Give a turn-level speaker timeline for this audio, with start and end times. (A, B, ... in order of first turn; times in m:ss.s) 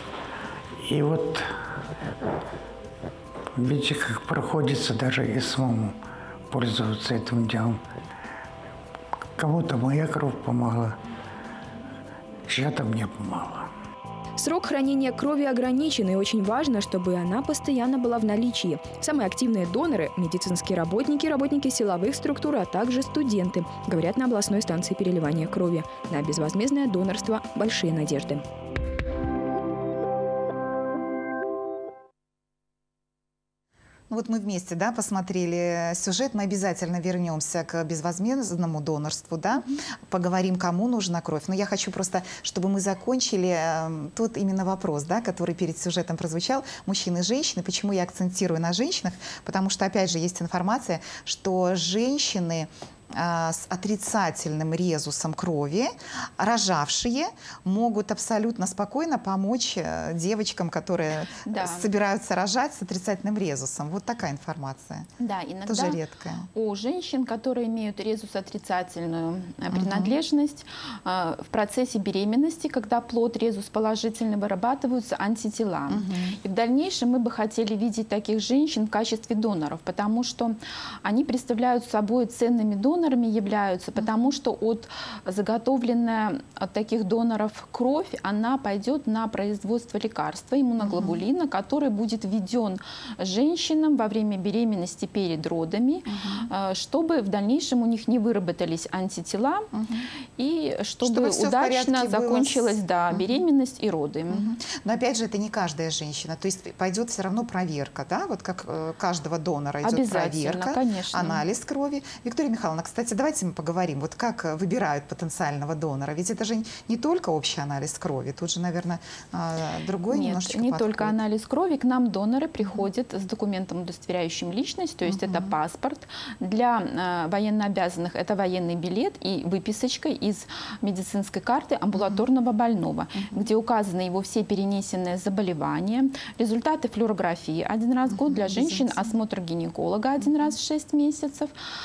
0:00.8-0:01.5 A
0:03.5-0:06.0 A
0:06.5-0:07.8 A
0:09.4-0:11.0 A
0:12.5-0:13.7 A
0:14.4-0:28.4 B
0:34.1-1:05.1 C
1:01.4-1:01.9 D
1:05.2-1:06.0 D
1:05.6-1:06.5 C
1:06.5-1:39.7 D
1:09.7-1:10.2 C
1:15.9-1:16.4 C
1:30.8-1:31.2 C
1:36.1-1:36.5 C
1:39.7-1:40.1 C
1:40.4-1:44.5 D
1:41.0-1:43.4 C
1:44.3-2:01.2 C
1:49.8-1:51.4 D
2:00.1-2:21.5 D
2:02.6-2:02.9 C
2:05.0-2:05.5 C
2:12.0-2:12.2 C
2:13.1-2:13.4 C
2:18.1-2:19.1 C
2:20.2-2:20.5 C